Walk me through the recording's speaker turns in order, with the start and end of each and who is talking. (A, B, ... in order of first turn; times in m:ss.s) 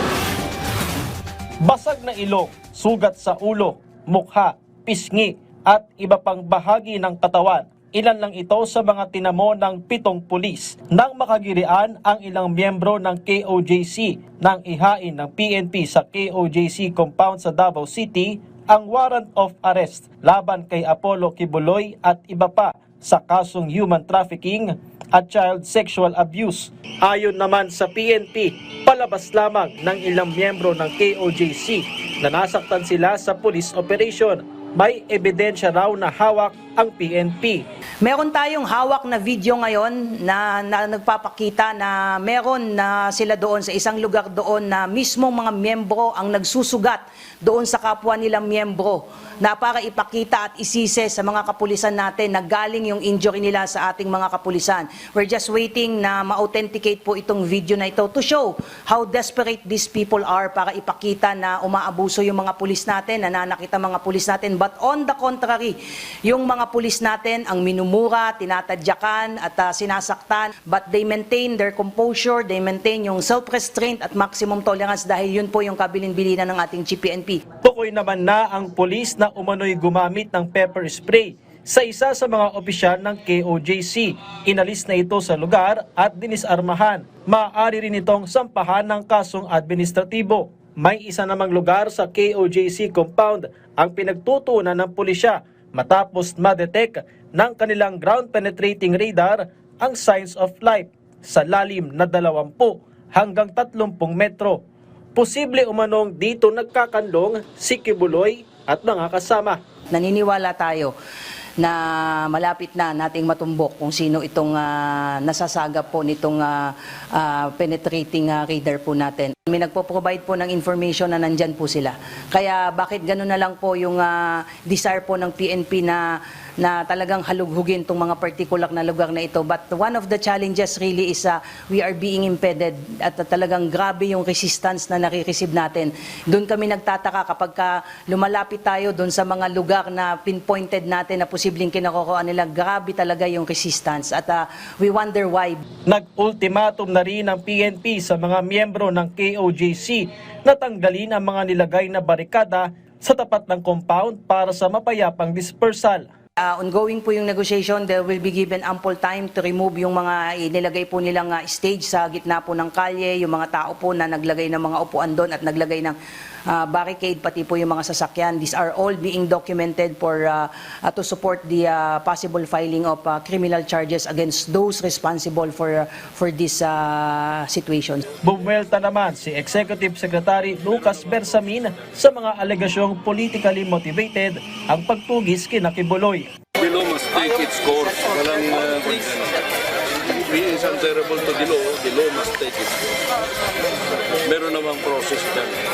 0:01.6-0:37.7 A
0:38.0-1:17.4 B
1:17.6-1:44.6 A
1:45.2-1:49.6 A
1:49.9-1:50.9 B
1:51.6-2:06.0 B
2:06.6-2:25.6 B
2:25.9-2:36.1 A
2:36.4-2:46.0 B
2:46.5-2:58.0 B
2:58.2-3:06.3 A
3:06.6-3:09.4 C
3:10.2-3:12.7 C
3:14.2-3:15.6 C